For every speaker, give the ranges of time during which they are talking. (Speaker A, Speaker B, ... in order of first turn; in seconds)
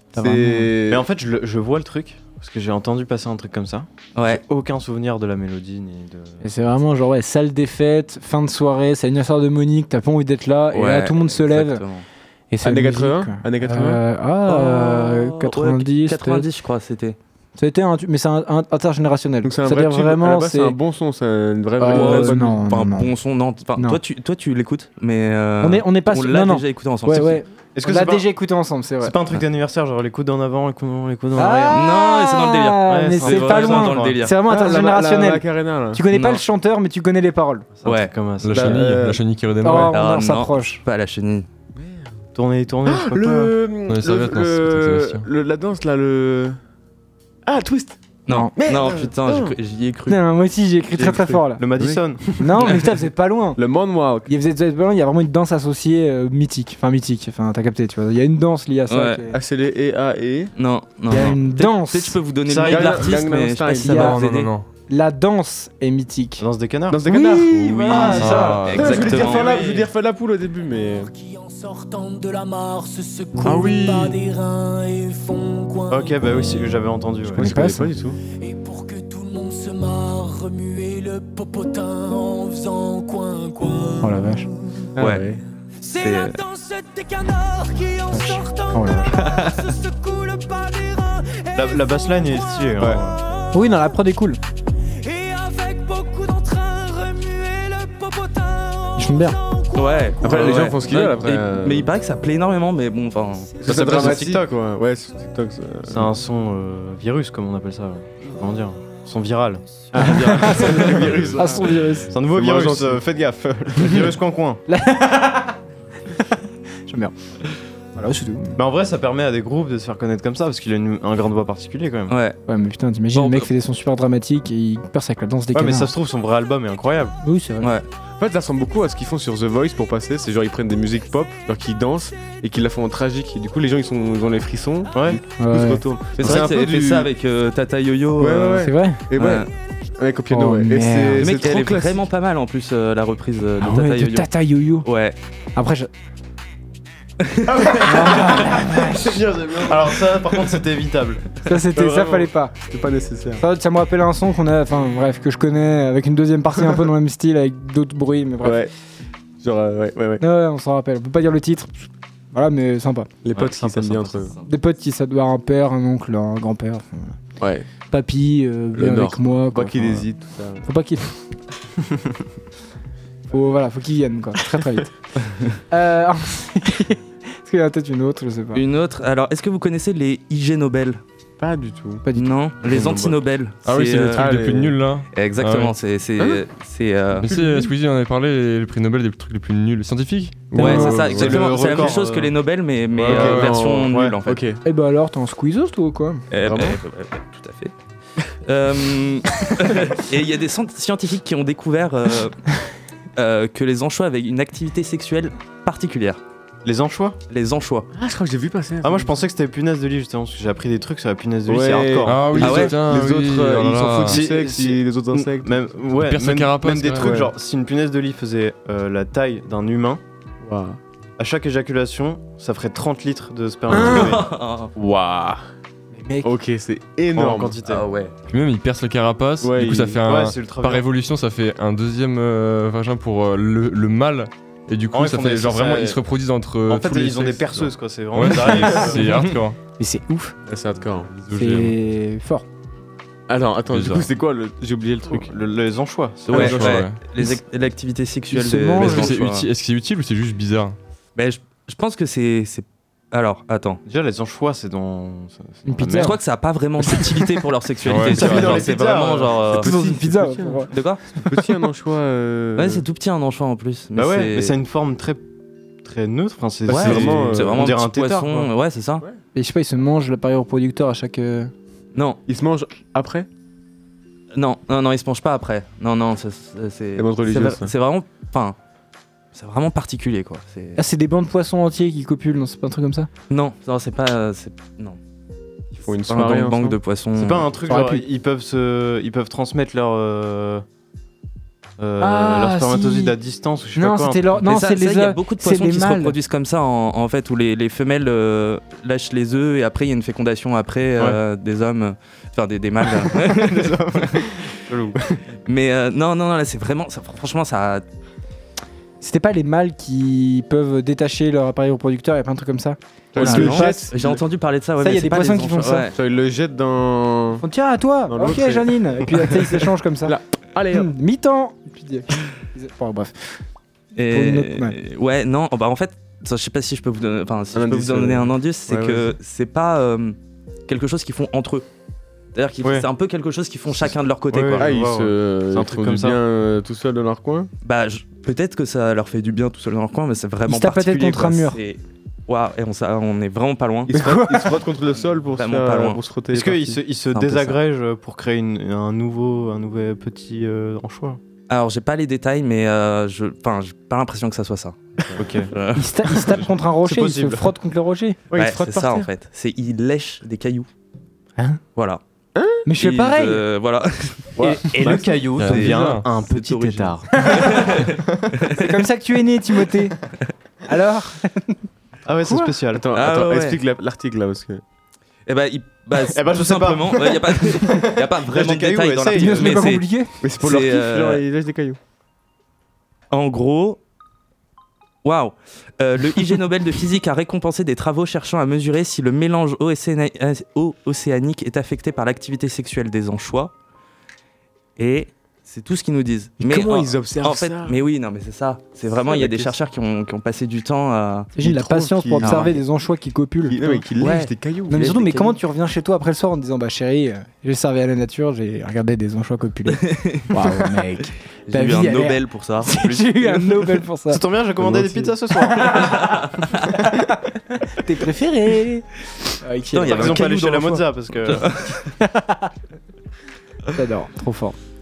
Speaker A: 0.1-0.7, 6.4-11.8, 12.5-16.5, 17.6-20.8, 21.8-23.1, 23.8-24.0, 25.6-29.1, 31.4-37.7, 39.6-40.8, 50.1-51.6, 52.4-53.6, 54.2-59.4, 61.1-62.2, 63.7-66.5, 67.0-68.6, 77.3-77.9, 84.0-84.5, 88.1-89.2, 93.5-94.4, 99.0-99.4, 110.0-112.1, 114.7-115.5, 116.9-117.1, 118.0-118.6, 122.5-125.9, 127.2-127.7, 135.4-135.8, 138.6-139.1, 140.3-141.4, 143.6-144.9, 145.6-145.9, 147.8-149.1, 151.4-152.6, 153.4-158.7, 160.2-163.1, 164.4-167.2, 167.9-170.1, 170.6-171.2, 173.3-174.9, 175.7-178.6, 182.1-182.3, 190.6-191.0, 194.6-196.3, 226.0-226.3, 239.8-240.3, 241.3-242.4, 248.3-249.2, 255.7-256.2, 259.6-260.7, 269.4-271.5, 280.8-283.1, 287.7-288.0, 292.0-293.1, 293.8-296.2, 309.0-313.9, 314.8-315.9, 317.4-320.1, 320.7-323.1, 324.0-324.8, 340.5-341.6, 343.9-344.6, 355.8-358.2, 362.6-363.4, 367.2-367.5, 368.6-370.0, 370.7-371.6, 372.2-372.5, 379.1-380.1, 401.4-403.8, 404.7-414.2, 415.3-416.0, 417.7-418.9, 419.4-420.5, 422.0-422.5, 423.7-424.6
Speaker B: 0.2-1.1, 12.6-14.0, 19.4-22.7, 34.4-36.1, 38.5-39.2, 41.8-42.1, 42.9-46.6, 47.5-48.0, 48.5-49.6, 51.0-52.4, 53.6-54.3, 59.3-60.5, 62.7-64.1, 66.9-71.1, 73.4-74.2, 77.3-78.2, 85.0-85.4, 100.2-101.9, 103.6-106.1, 109.9-114.0, 128.2-137.1, 138.2-139.4, 140.0-142.1, 147.7-150.0, 151.7-153.4, 158.4-158.7, 159.4-160.2, 163.2-164.3, 167.4-167.7, 168.8-170.6, 181.4-182.1, 184.1-184.8, 186.2-186.4, 187.3-187.7, 190.5-191.9, 192.9-194.6, 196.4-196.8, 207.9-209.1, 211.5-215.6, 217.0-217.3, 220.4-220.8, 223.7-224.1, 224.8-225.4, 226.2-227.6, 229.4-230.0, 240.5-241.1, 243.3-245.3, 258.2-258.7, 259.4-262.9, 266.7-267.8, 272.3-273.3, 277.0-277.7, 285.7-286.8, 313.1-314.2, 315.9-317.4, 318.1-320.9, 327.5-329.1, 334.5-337.5, 343.9-346.8, 355.0-355.3, 358.3-359.1, 362.4-362.7, 364.4-365.4, 372.7-374.6, 380.2-381.8, 396.4-397.9, 398.9-399.6, 401.4-402.6, 403.4-404.9, 414.6-415.1
Speaker C: 0.9-6.4, 27.8-28.3, 29.0-31.8, 32.9-34.2, 37.8-38.9, 42.4-43.6, 51.6-52.4, 62.5-63.1, 66.4-69.8, 75.9-77.6, 91.5-93.2, 103.7-104.5, 105.9-109.9, 111.0-111.3, 112.1-114.6, 118.6-122.2, 125.5-127.2, 134.9-135.2, 136.2-136.5, 149.6-151.2, 163.3-164.2, 182.7-183.1, 191.1-192.4, 193.1-194.2, 206.7-207.2, 208.8-212.7, 214.1-220.0, 221.2-224.3, 227.2-227.9, 230.1-230.8, 234.9-236.0, 236.7-239.3, 245.1-246.8, 253.9-256.2, 258.1-259.4, 263.9-265.2, 265.8-268.5, 287.1-290.6, 291.8-294.4, 303.0-305.2, 332.6-332.9, 334.3-336.2, 346.3-351.2, 355.2-355.5, 356.8-357.5, 364.6-367.3, 372.1-372.9, 376.1-379.7, 414.1-416.0, 419.9-421.5
Speaker D: 4.2-4.4, 10.7-12.1, 14.5-17.2, 21.9-27.4, 31.7-34.4, 36.1-36.4, 37.9-38.1, 39.9-41.5, 48.3-50.2, 58.9-59.2, 60.5-64.5, 68.7-69.7, 85.0-85.3, 86.0-86.4, 89.2-89.6, 99.8-104.3, 122.1-122.4, 123.1-123.5, 127.6-127.9, 136.2-139.5, 141.2-144.3, 144.8-145.2, 147.2-147.8, 178.5-181.0, 182.1-184.3, 185.1-187.3, 190.6-194.4, 196.3-197.7, 198.4-202.4, 203.2-206.2, 207.3-207.9, 212.4-212.8, 224.0-224.7, 227.6-228.1, 243.8-244.1, 246.3-249.5, 251.2-253.8, 256.0-259.7, 260.7-261.0, 262.6-264.6, 266.7-269.1, 271.9-272.2, 274.3-278.6, 279.3-280.8, 283.3-285.0, 286.1-287.5, 294.4-304.3, 305.5-307.8, 313.1-315.9, 323.9-330.2, 330.7-331.7, 332.3-334.7, 337.6-344.0, 345.2-346.0, 347.1-347.6, 351.5-354.9, 355.5-356.0, 358.3-360.7, 361.8-362.0, 362.8-368.8, 372.9-373.6, 375.3-381.2, 383.1-383.8, 385.0-393.5, 394.8-401.3, 402.2-402.5, 404.0-405.4, 409.7-410.4, 411.5-413.8, 419.7-421.9
Speaker E: 38.4-40.0, 43.9-45.3, 64.0-64.6, 68.1-69.0, 183.7-185.8, 187.2-191.2, 193.1-193.5, 212.1-214.2, 216.0-217.1, 228.3-239.6, 241.2-241.7, 246.3-247.0, 248.8-250.8, 257.8-258.6, 365.4-366.1
Speaker F: 71.0-76.6, 78.5-84.2, 85.8-91.3, 95.1-100.1